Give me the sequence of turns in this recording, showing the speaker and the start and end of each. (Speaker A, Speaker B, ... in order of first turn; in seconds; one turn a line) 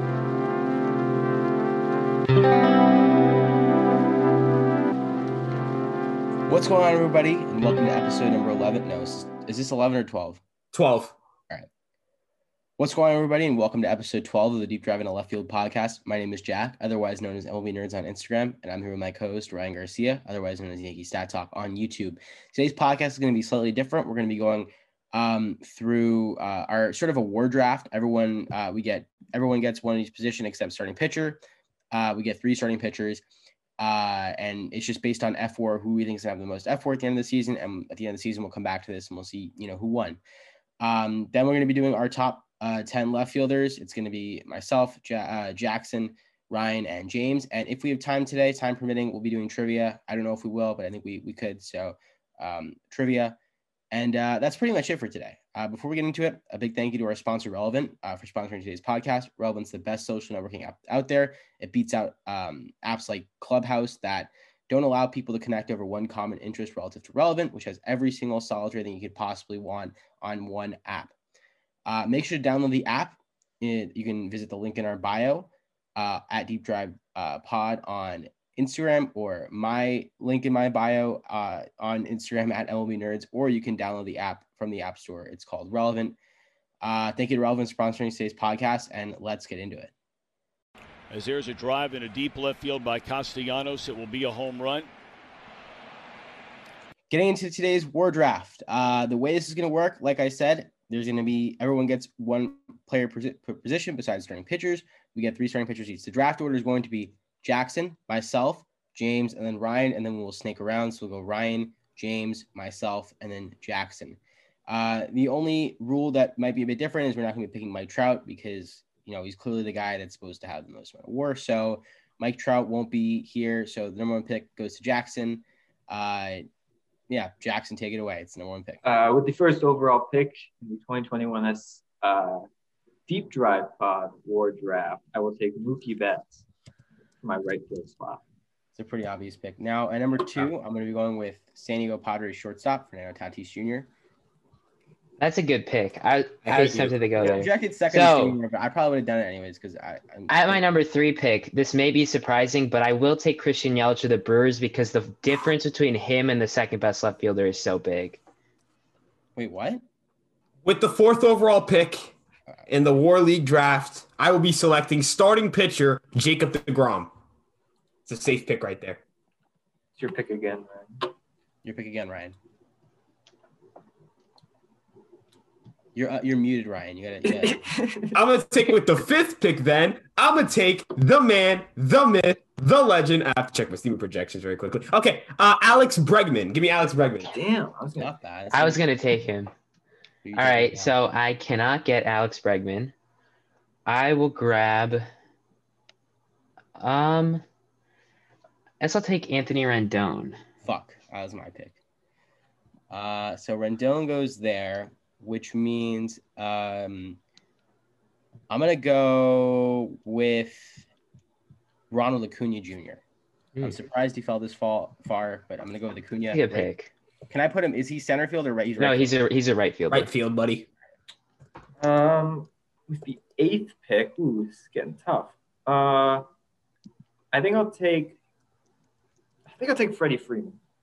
Speaker A: 6.5-10.4
Speaker B: 10.7-11.1
Speaker A: 12.8-33.2
Speaker A: 33.8-40.2
Speaker A: 40.8-53.4
Speaker A: 53.9-71.1
Speaker A: 71.8-86.2
Speaker A: 86.8-89.9
Speaker C: 91.1-94.9
Speaker A: 97.1-126.5
Speaker A: 127.1-129.0
Speaker D: 128.8-132.4
Speaker D: 133.1-136.4
Speaker D: 137.2-138.2
Speaker A: 138.8-143.9
Speaker E: 145.2-148.4
Speaker B: 146.4-147.2
Speaker A: 147.2-150.6
Speaker E: 150.3-158.2
Speaker A: 159.3-159.8
Speaker B: 160.6-162.1
Speaker B: 162.7-167.1
Speaker B: 168.1-169.0
Speaker D: 170.0-171.1
Speaker A: 171.6-172.3
Speaker A: 175.9-177.7
Speaker D: 177.2-178.2
Speaker B: 178.1-187.3
Speaker D: 187.3-188.1
Speaker A: 187.9-188.8
Speaker E: 188.5-189.5
Speaker A: 190.2-190.9
Speaker E: 190.3-192.9
Speaker E: 193.8-195.1
Speaker E: 196.8-197.4
Speaker E: 198.8-200.4
Speaker A: 200.6-201.8
Speaker A: 202.9-207.2
Speaker A: 208.5-210.8
Speaker A: 211.9-213.0
Speaker A: 213.6-216.7
Speaker E: 216.3-216.9
Speaker A: 217.3-219.2
Speaker E: 218.8-220.1
Speaker B: 219.9-220.7
Speaker D: 221.8-226.2
Speaker D: 227.3-228.2
Speaker D: 229.6-230.6